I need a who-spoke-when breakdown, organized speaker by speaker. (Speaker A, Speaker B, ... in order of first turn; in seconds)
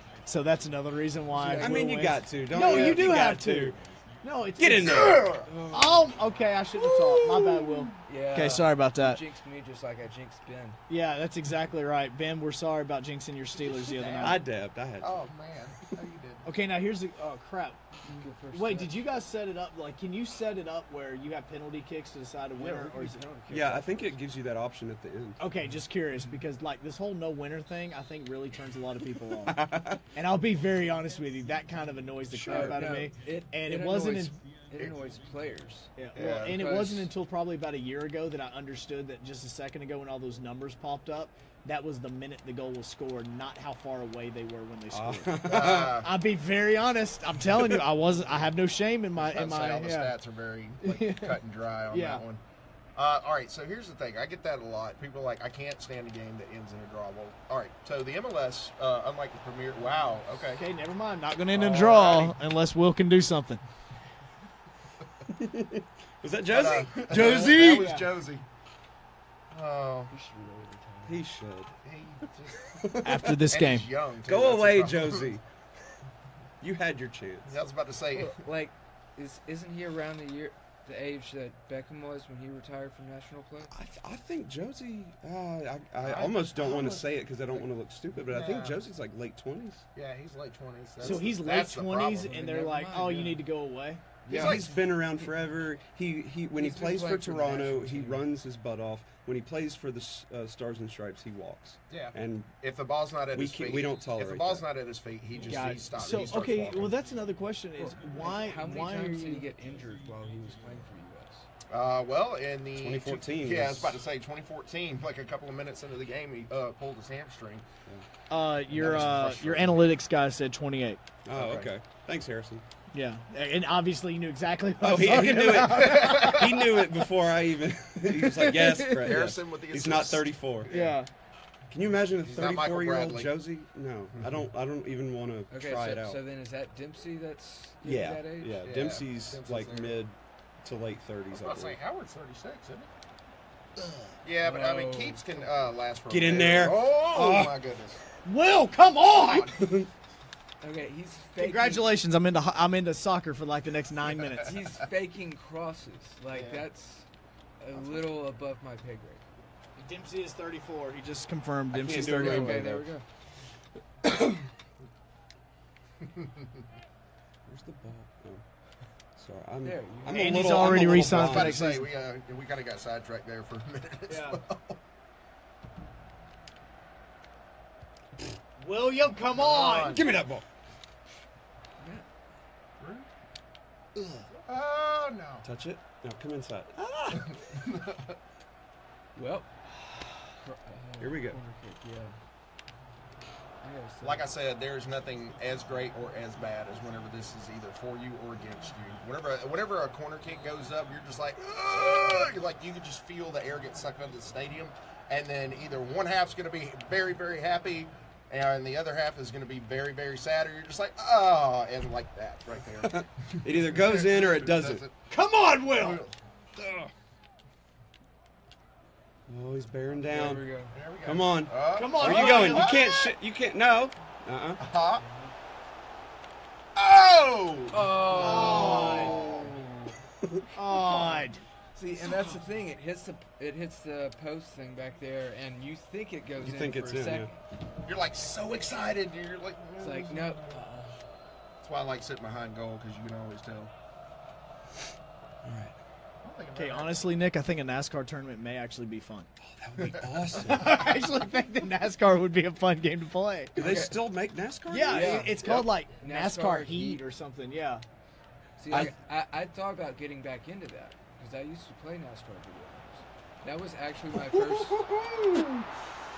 Speaker A: 0.2-9.2, 10.9-14.4, 16.4-23.2, 25.4-34.4, 36.0-50.1, 50.8-52.2, 60.5-63.6, 67.2-68.1, 73.0-73.9, 91.0-94.0, 105.5-109.5, 118.3-121.0, 122.9-126.4, 130.7-131.1, 148.2-149.5, 151.4-154.5, 159.8-162.7, 170.1-171.9, 174.1-174.4, 178.6-180.0, 215.1-216.0, 221.7-222.7, 228.1-229.2, 230.5-231.4, 246.5-249.3, 250.4-253.5, 254.7-257.8
Speaker B: 1.3-2.1, 5.4-6.1, 8.1-10.8, 18.0-19.1, 22.6-24.1, 32.5-37.1, 70.1-71.2, 78.2-83.7, 92.2-93.4, 94.2-95.3, 96.6-98.2, 107.8-111.5, 135.5-138.7, 144.4-145.5, 150.6-151.8, 154.4-157.1, 157.6-159.2, 162.1-163.0, 169.6-170.8, 181.8-182.0, 189.1-189.8, 190.3-192.2, 193.6-194.3, 220.1-220.7, 225.0-225.3, 227.7-229.5, 231.7-237.4, 239.8-240.9, 253.5-254.0, 254.8-257.0, 258.6-264.8
Speaker C: 1.6-3.8, 4.6-5.3, 14.2-15.1, 23.5-25.4, 29.4-30.0, 44.9-46.0, 65.3-68.0, 71.0-71.7, 72.6-73.3, 74.2-75.4, 76.6-77.5, 83.7-89.8, 94.3-102.5, 103.3-104.6, 112.8-114.0, 121.2-122.6, 124.8-130.7, 131.7-136.2, 137.8-141.8, 146.1-147.6, 149.6-149.9, 161.7-162.9, 164.0-164.4, 167.5-168.4, 169.2-171.6, 179.9-180.4, 185.4-187.3, 191.0-191.4, 212.8-214.8, 216.6-216.9, 219.3-220.5, 221.0-224.6, 236.4-237.3, 245.4-245.8, 249.4-250.8, 253.5-255.6
Speaker D: 4.8-5.5, 7.0-8.0, 15.0-16.4, 36.1-36.6, 45.4-46.1, 49.1-52.4, 53.0-60.6, 61.5-62.3, 66.5-68.5, 69.5-70.1, 71.8-72.9, 73.5-75.3, 77.5-78.4, 86.0-87.7, 88.2-88.8, 89.9-92.3, 94.3-94.7, 101.9-107.0, 111.7-117.6, 118.7-119.9, 121.3-121.7, 125.8-126.5, 128.9-131.0, 132.2-133.3, 138.6-140.0, 141.3-142.9, 144.2-148.0, 149.2-149.6, 156.3-156.6, 166.0-166.3, 170.7-174.8, 179.3-180.2, 182.8-183.1, 184.4-185.4, 187.2-188.1, 194.0-214.9, 215.8-216.2, 220.7-223.1, 224.6-225.0, 226.8-229.7, 232.0-232.4, 237.8-240.7, 241.6-243.7, 246.2-247.0, 249.8-250.4, 264.3-265.6